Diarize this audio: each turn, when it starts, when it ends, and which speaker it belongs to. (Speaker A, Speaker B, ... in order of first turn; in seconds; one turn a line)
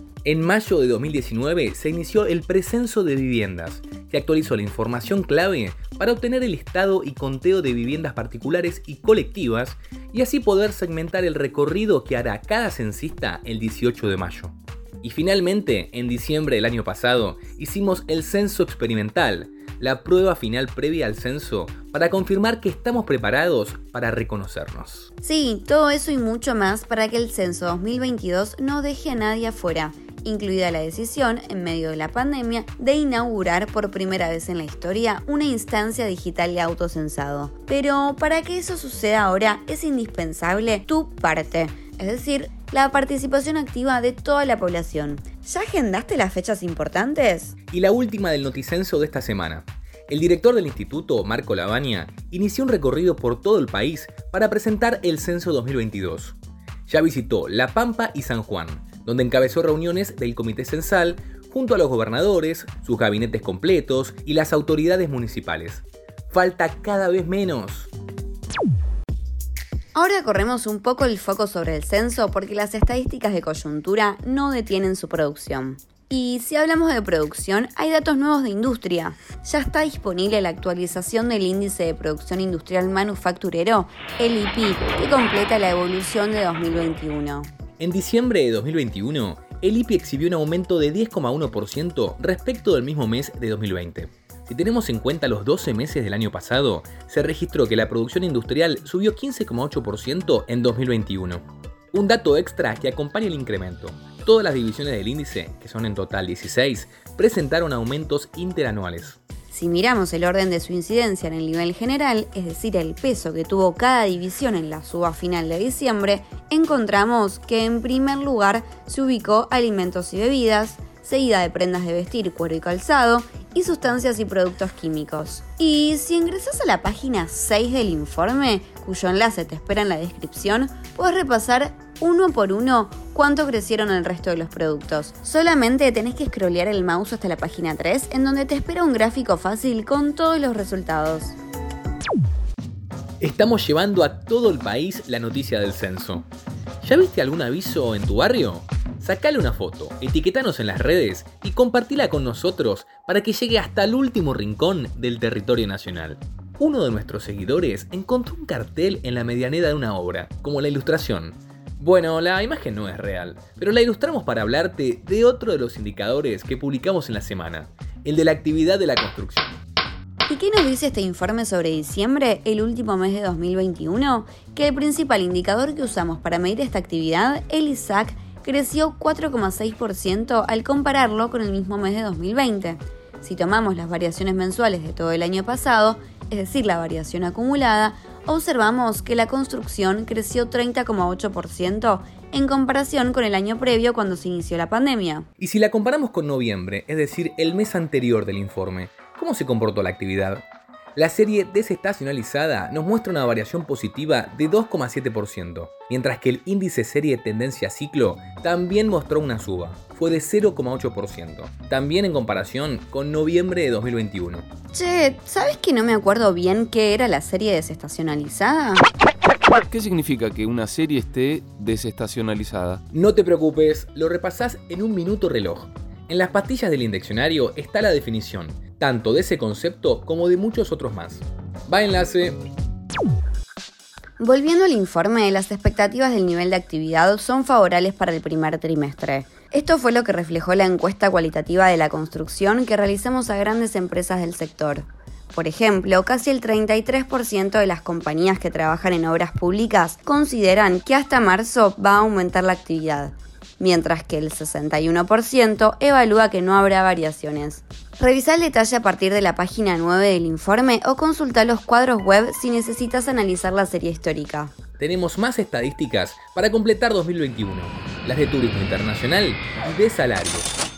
Speaker A: 0.2-25.1
Speaker B: 25.2-47.5
Speaker A: 47.7-67.9
Speaker B: 70.0-87.5
Speaker A: 87.8-109.2
Speaker B: 109.5-141.4
Speaker A: 143.2-146.2
Speaker A: 146.8-169.6
Speaker B: 170.2-195.3
Speaker A: 195.4-200.4
Speaker A: 200.9-214.4
Speaker B: 214.7-218.8
Speaker C: 219.6-222.8
Speaker A: 222.9-232.4
Speaker B: 234.2-264.5
Speaker A: 264.8-270.6